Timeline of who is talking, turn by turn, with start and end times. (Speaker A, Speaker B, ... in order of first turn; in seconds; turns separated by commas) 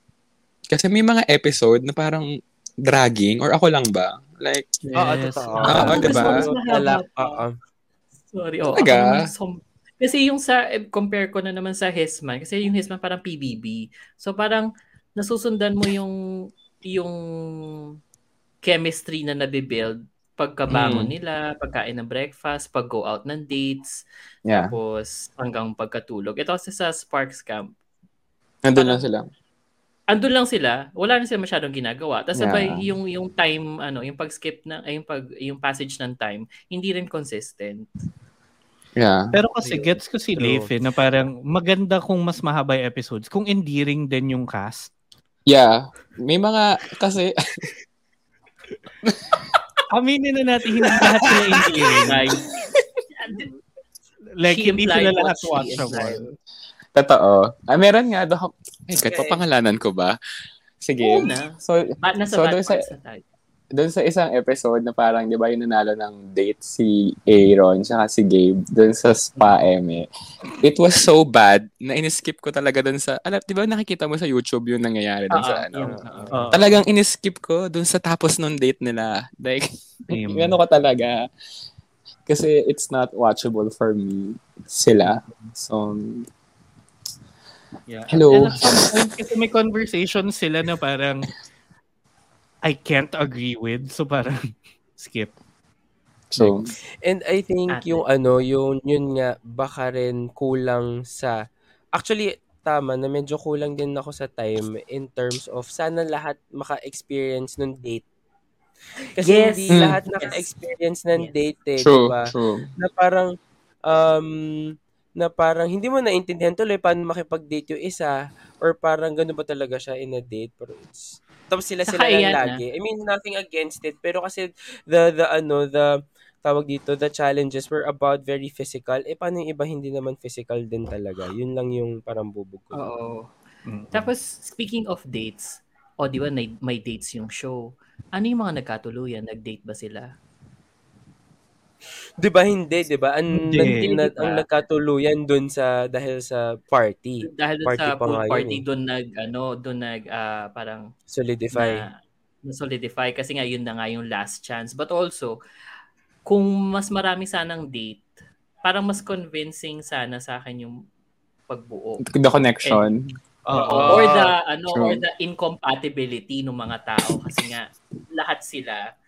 Speaker A: 0.7-2.3, Speaker A: 2.8-4.8, Speaker B: 4.9-6.1, Speaker C: 5.0-7.5, Speaker D: 5.6-7.4, Speaker A: 5.6-6.5, Speaker D: 8.3-16.1, Speaker A: 8.7-9.2, Speaker D: 16.8-17.9, Speaker D: 18.6-24.0, Speaker A: 20.7-21.1, Speaker A: 24.5-24.7, Speaker D: 24.5-27.7, Speaker A: 28.6-29.3, Speaker D: 28.7-29.0, Speaker D: 30.1-37.9, Speaker A: 32.4-32.9, Speaker A: 39.0-39.3, Speaker B: 39.3-44.9, Speaker C: 39.6-40.7, Speaker A: 45.5-47.6, Speaker A: 49.0-49.4, Speaker B: 49.9-52.3, Speaker D: 51.6-52.5, Speaker D: 53.2-53.5, Speaker B: 54.4-56.3, Speaker D: 54.5-56.3, Speaker A: 56.9-60.2, Speaker C: 58.9-59.4, Speaker A: 60.8-62.9, Speaker D: 61.0-63.2, Speaker A: 63.7-76.0, Speaker D: 75.3-76.6, Speaker C: 75.8-76.5, Speaker B: 76.3-76.6, Speaker A: 76.5-81.2, Speaker B: 80.1-80.6, Speaker A: 82.3-86.2, Speaker B: 87.9-91.3, Speaker A: 88.1-89.0, Speaker B: 92.6-94.3, Speaker B: 95.0-95.3, Speaker A: 96.3-96.7, Speaker B: 96.4-96.7, Speaker C: 97.0-101.3, Speaker D: 97.7-98.0, Speaker C: 102.0-108.0, Speaker C: 109.2-113.3, Speaker D: 109.2-110.5, Speaker A: 109.7-110.0, Speaker A: 111.8-112.7, Speaker C: 113.9-125.9, Speaker D: 121.9-122.6, Speaker C: 126.4-132.8, Speaker D: 132.7-133.3, Speaker B: 133.7-134.1, Speaker D: 133.9-140.1, Speaker C: 142.2-148.6, Speaker B: 143.3-143.8, Speaker D: 143.6-144.4, Speaker D: 147.2-150.9, Speaker C: 151.1-151.9, Speaker D: 151.5-151.9, Speaker D: 152.4-155.4, Speaker D: 156.2-158.1, Speaker D: 158.6-160.7, Speaker D: 161.5-162.0, Speaker A: 162.1-163.0, Speaker B: 163.4-164.1, Speaker D: 163.5-168.8, Speaker A: 163.7-165.0